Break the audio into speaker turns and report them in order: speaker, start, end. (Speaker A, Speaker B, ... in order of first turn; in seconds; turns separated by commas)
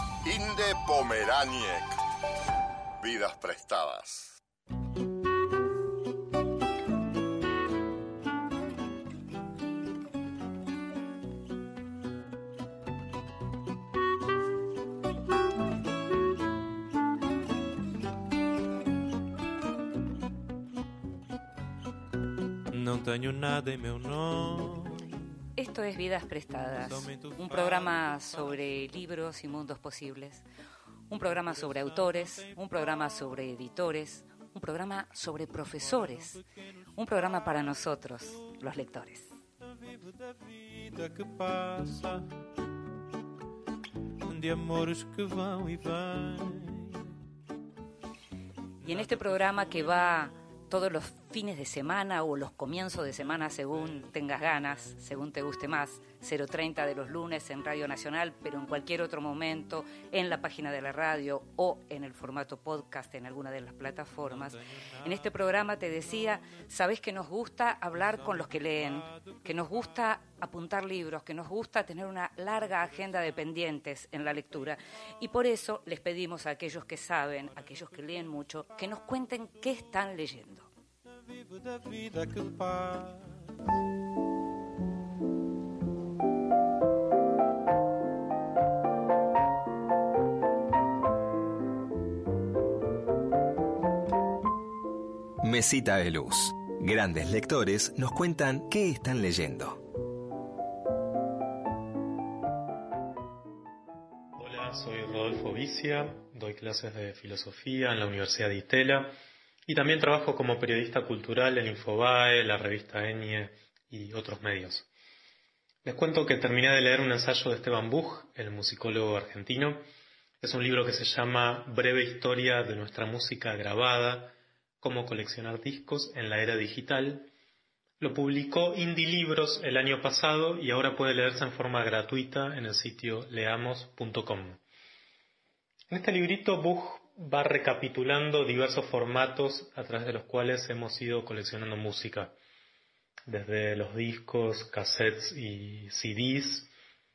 Speaker A: 0.2-2.0, Speaker A: 3.0-4.4, Speaker B: 22.7-25.1, Speaker C: 25.6-30.4, Speaker B: 26.7-28.9, Speaker C: 31.1-36.4, Speaker B: 31.2-33.1, Speaker B: 35.5-36.4, Speaker C: 37.0-39.3, Speaker B: 37.0-38.5, Speaker B: 39.6-42.3, Speaker B: 44.2-47.0, Speaker B: 48.8-50.0, Speaker C: 48.8-80.7, Speaker B: 64.2-66.6, Speaker B: 67.9-70.1, Speaker B: 72.6-73.5, Speaker B: 74.4-74.7, Speaker B: 77.5-78.6, Speaker B: 81.2-83.5, Speaker D: 95.4-99.8, Speaker E: 104.4-109.2, Speaker E: 109.7-114.9, Speaker E: 115.8-119.8, Speaker E: 120.4-127.3, Speaker E: 128.0-134.6, Speaker E: 135.9-142.3, Speaker E: 143.3-146.7